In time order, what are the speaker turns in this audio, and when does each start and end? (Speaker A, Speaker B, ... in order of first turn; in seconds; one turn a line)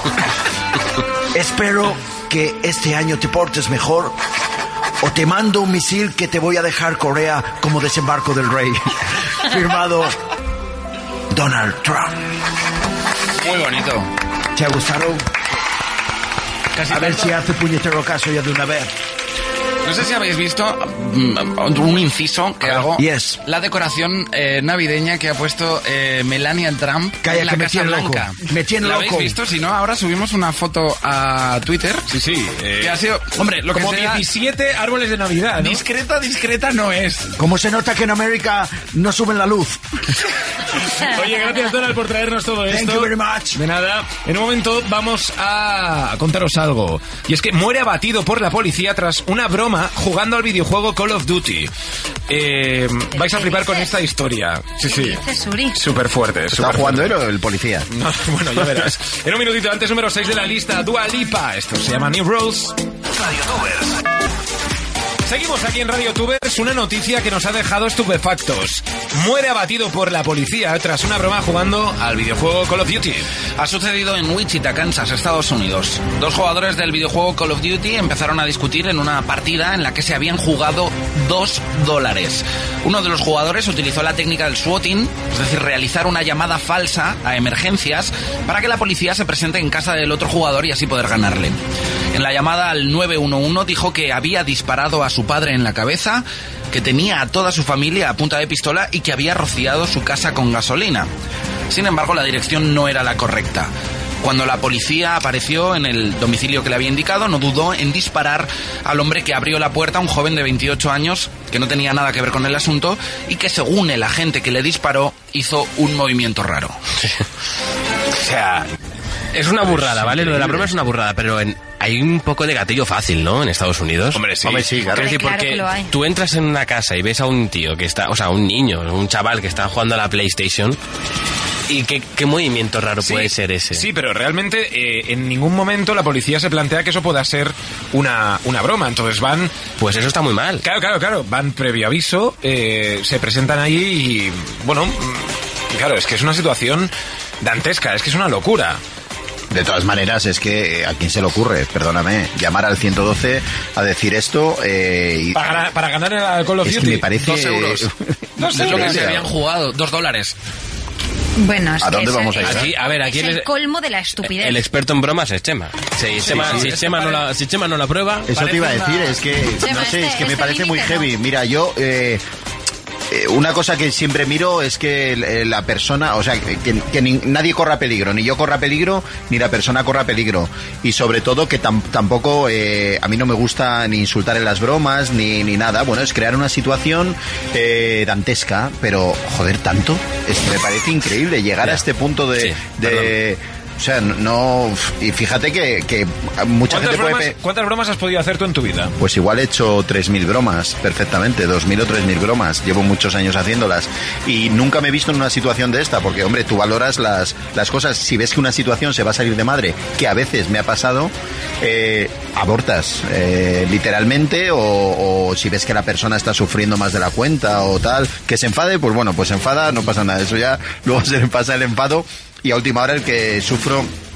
Speaker A: 1.3-4.2
Speaker A: 5.0-8.9
Speaker A: 9.5-10.2
Speaker A: 11.3-12.2
Speaker B: 13.4-14.1
Speaker A: 14.6-15.2
Speaker B: 16.8-17.4
Speaker A: 16.9-18.9
Speaker B: 19.9-32.1
Speaker C: 22.6-22.9
Speaker A: 23.0-23.4
Speaker A: 27.2-29.4
Speaker C: 32.1-33.0
Speaker B: 32.8-34.2
Speaker C: 33.7-35.8
Speaker B: 35.5-37.3
Speaker A: 37.4-39.8
Speaker C: 41.0-51.7
Speaker A: 42.7-43.6
Speaker C: 52.3-55.2
Speaker D: 53.3-53.9
Speaker D: 54.9-55.8
Speaker C: 55.7-57.2
Speaker E: 56.5-57.9
Speaker C: 57.9-62.8
Speaker C: 63.3-63.9
Speaker C: 65.2-73.3
Speaker B: 73.6-91.6
Speaker B: 92.1-101.1
Speaker B: 101.7-116.8
Speaker F: 119.3-124.2
Speaker C: 119.6-120.7
Speaker C: 124.1-124.7
Speaker E: 124.4-125.0
Speaker D: 124.8-125.9
Speaker F: 124.9-130.8
Speaker F: 131.7-133.9
Speaker C: 133.0-139.6
Speaker F: 139.8-140.7
Speaker C: 140.6-146.9
Speaker C: 147.4-148.8
Speaker E: 149.5-155.4
Speaker C: 155.3-157.2
Speaker E: 156.6-159.2
Speaker B: 157.2-157.9
Speaker C: 158.4-159.1
Speaker B: 158.4-160.3
Speaker D: 161.4-164.7
Speaker E: 161.8-162.7
Speaker F: 162.4-163.5
Speaker F: 164.2-168.3
Speaker E: 166.2-166.7
Speaker C: 166.2-167.0
Speaker B: 168.3-169.2
Speaker E: 168.3-172.2
Speaker D: 169.6-171.1
Speaker E: 173.1-197.4
Speaker F: 192.4-193.2
Speaker C: 196.7-198.9
Speaker E: 199.0-223.9